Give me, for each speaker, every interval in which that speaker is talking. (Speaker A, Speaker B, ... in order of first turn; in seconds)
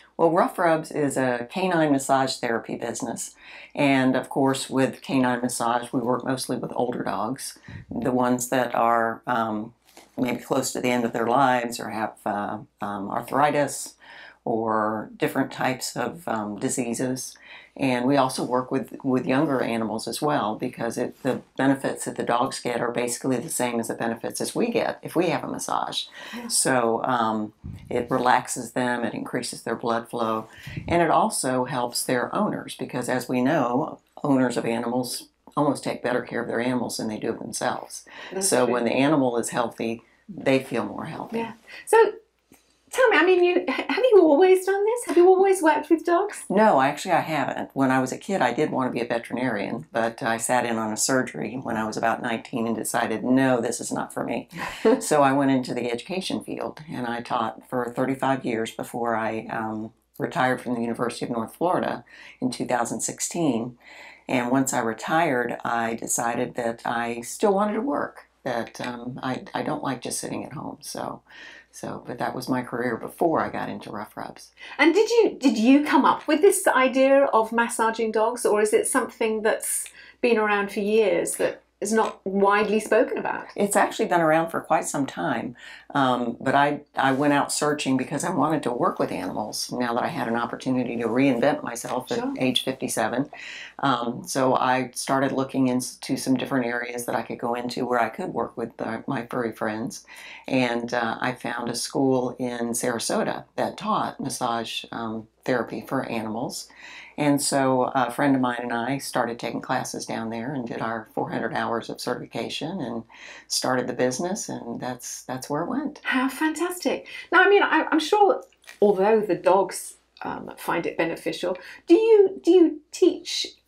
Speaker A: 0.2-41.5, 46.5-63.7, 64.3-74.5, 83.5-93.3, 93.8-116.0
Speaker B: 38.3-38.8, 41.3-42.1, 42.9-46.4, 74.8-83.5, 92.1-92.4, 116.0-123.5